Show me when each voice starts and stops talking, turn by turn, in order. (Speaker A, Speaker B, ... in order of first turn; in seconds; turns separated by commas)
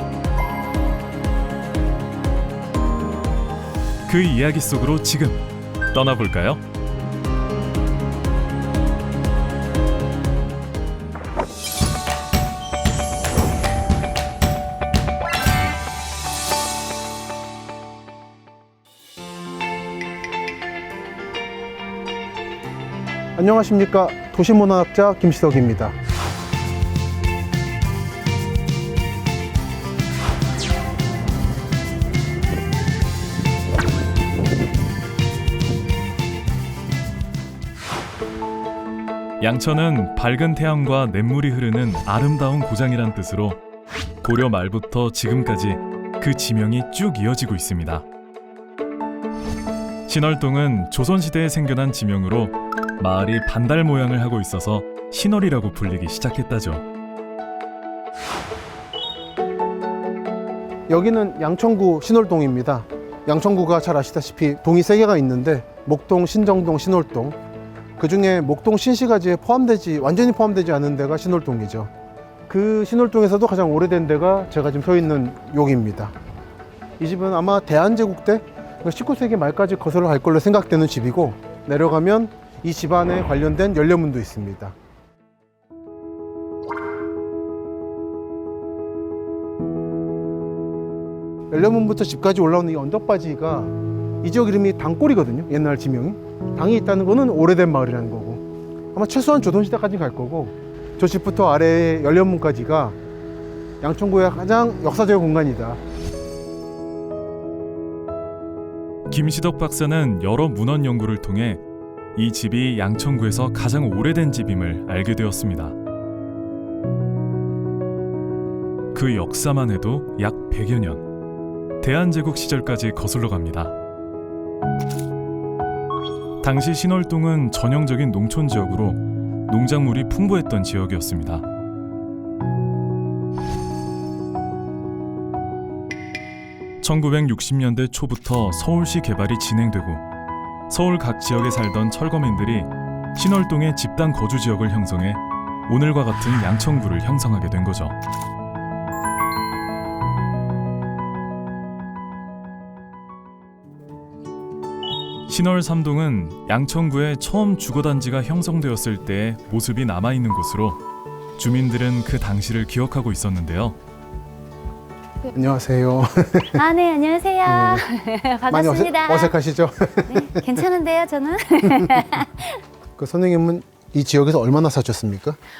Speaker A: 4.1-6.6, Speaker B: 23.4-25.9, Speaker A: 39.4-43.6, Speaker A: 44.2-48.0, Speaker A: 50.1-56.9, Speaker B: 60.9-67.4, Speaker B: 68.0-71.9, Speaker B: 72.5-76.1, Speaker B: 77.0-84.8, Speaker B: 91.5-98.4, Speaker B: 98.9-103.0, Speaker B: 103.8-105.8, Speaker A: 109.1-111.6, Speaker A: 112.2-115.8, Speaker A: 118.9-121.1, Speaker A: 121.8-123.7, Speaker A: 126.4-131.4, Speaker A: 136.8-140.0, Speaker A: 140.7-148.0, Speaker A: 155.3-160.8, Speaker A: 161.4-163.8, Speaker B: 165.3-166.6, Speaker C: 166.5-169.4, Speaker B: 167.4-167.9, Speaker B: 168.5-170.6, Speaker C: 170.1-172.6, Speaker B: 173.0-175.4